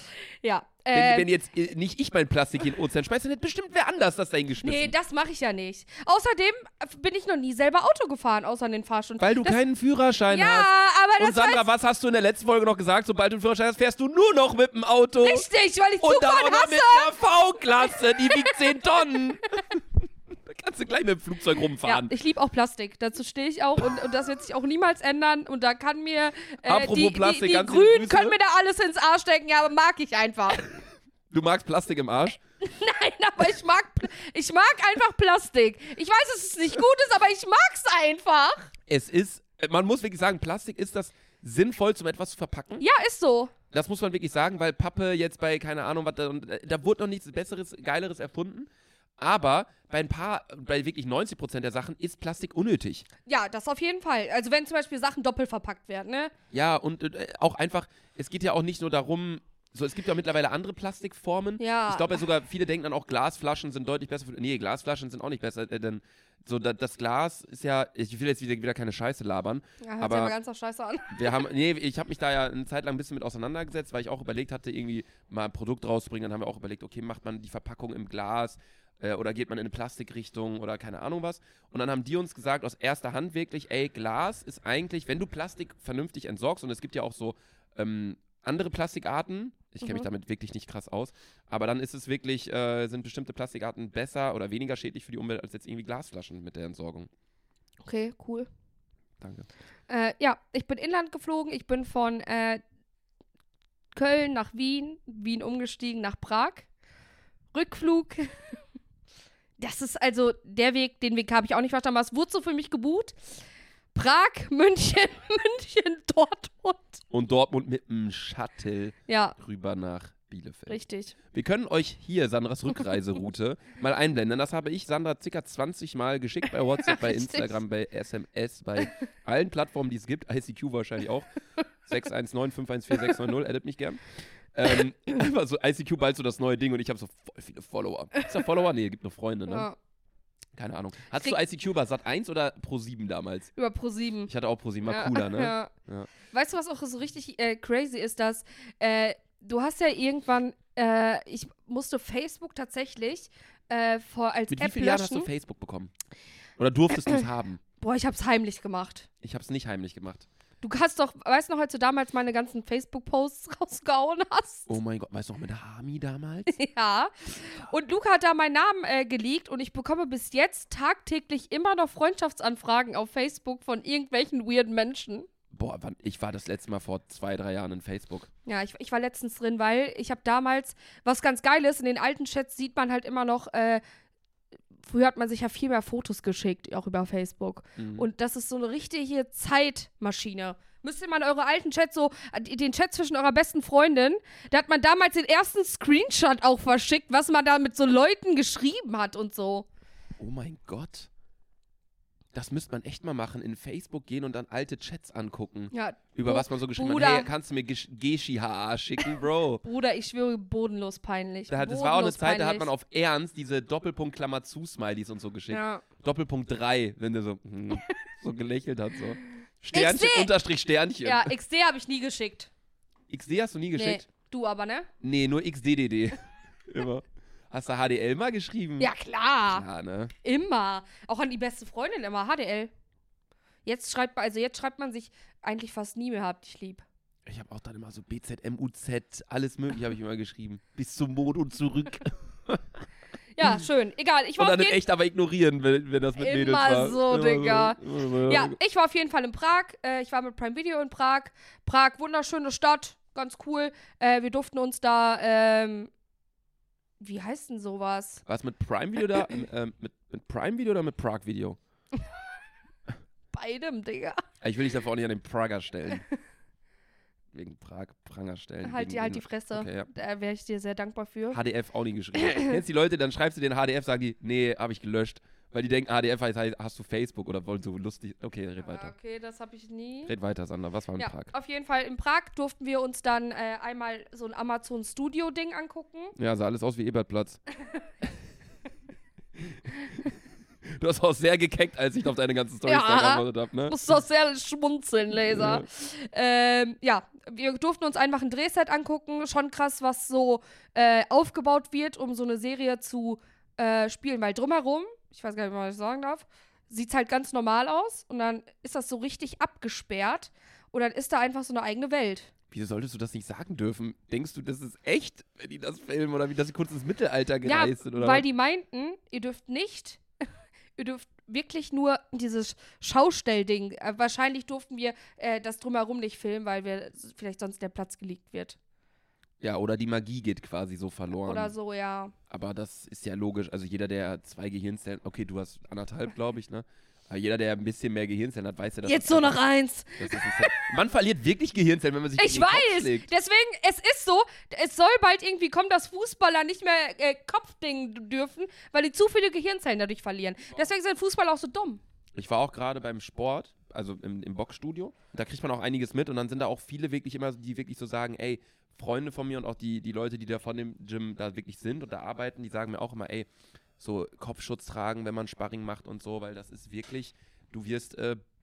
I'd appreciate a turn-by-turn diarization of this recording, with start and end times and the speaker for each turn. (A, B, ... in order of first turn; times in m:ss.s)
0:00.4-0:01.3 A
0:00.9-0:04.9 B
0:04.6-0:09.6 A
0:09.2-0:15.5 B
0:10.3-0:11.6 A
0:15.2-0:17.1 A
0:16.0-0:19.8 B
0:18.2-0:18.6 A
0:20.4-0:22.1 B
0:21.8-0:30.6 A
0:26.6-0:28.4 B
0:31.3-0:32.4 B
0:32.6-0:38.7 A
0:38.9-0:42.8 B
0:42.8-0:43.5 A
0:43.7-0:53.0 B
0:53.2-0:56.3 A
0:56.5-1:10.4 B
1:01.6-1:02.2 A
1:09.8-1:11.5 A
1:11.1-1:37.1 B
1:37.8-1:38.5 A
1:39.2-1:39.5 B
1:39.9-1:42.6 A
1:44.0-1:46.7 A
1:47.5-1:48.3 A
1:49.6-1:53.2 A
1:53.9-1:57.0 A
1:57.1-2:00.8 B
1:59.1-1:59.4 A
2:00.7-2:01.2 A
2:01.3-2:11.3 B
2:06.8-2:07.6 A
2:11.9-2:14.0 B
2:14.5-2:19.7 B
2:19.5-2:19.8 A
2:20.5-2:23.5 B
2:23.6-2:24.3 A
2:24.3-2:26.1 B
2:24.8-2:25.7 A
2:26.3-2:35.3 A
2:34.5-2:35.9 B
2:36.6-2:37.6 B
2:37.8-2:39.1 A
2:39.2-2:40.3 B
2:40.6-2:44.7 A
2:44.7-2:46.6 B
2:46.5-2:55.3 A
2:55.5-2:58.3 B
2:58.5-3:03.8 A
3:04.8-3:19.7 A
3:07.8-3:08.1 B
3:20.2-3:21.1 B
3:22.3-3:29.6 B
3:25.7-3:27.3 A
3:29.6-3:32.7 A
3:31.5-3:41.3 B
3:35.5-3:35.8 A
3:39.7-3:40.3 A
3:41.0-3:42.5 A
3:43.1-3:44.0 B
3:43.8-3:44.9 A
3:45.0-3:48.9 B
3:48.8-3:49.6 A
3:49.5-3:50.1 B
3:50.2-3:52.7 A
3:53.6-3:56.8 A
3:57.3-4:02.7 B
4:03.4-4:04.8 A
4:04.4-4:08.6 B
4:06.2-4:15.9 A
4:17.0-4:18.2 A
4:18.2-4:21.6 B
4:23.3-4:24.2 A
4:24.4-4:26.0 B
4:27.3-4:29.9 B
4:28.6-4:31.4 A
4:31.3-4:38.9 B
4:38.6-4:40.1 A
4:40.0-4:41.3 B
4:41.0-4:46.2 A
4:46.2-4:47.4 B
4:49.7-4:50.1 B
4:50.7-4:53.8 B
4:52.6-5:12.3 A
4:55.2-4:55.7 B
5:12.5-5:18.2 B
5:17.4-5:20.0 A
5:20.8-5:28.6 A
5:29.4-5:31.5 B
5:31.1-5:32.1 A
5:32.3-5:39.4 B
5:38.8-5:40.6 A
5:40.0-5:43.1 B
5:42.2-5:51.8 A
5:52.2-6:03.3 B
6:03.8-6:08.2 B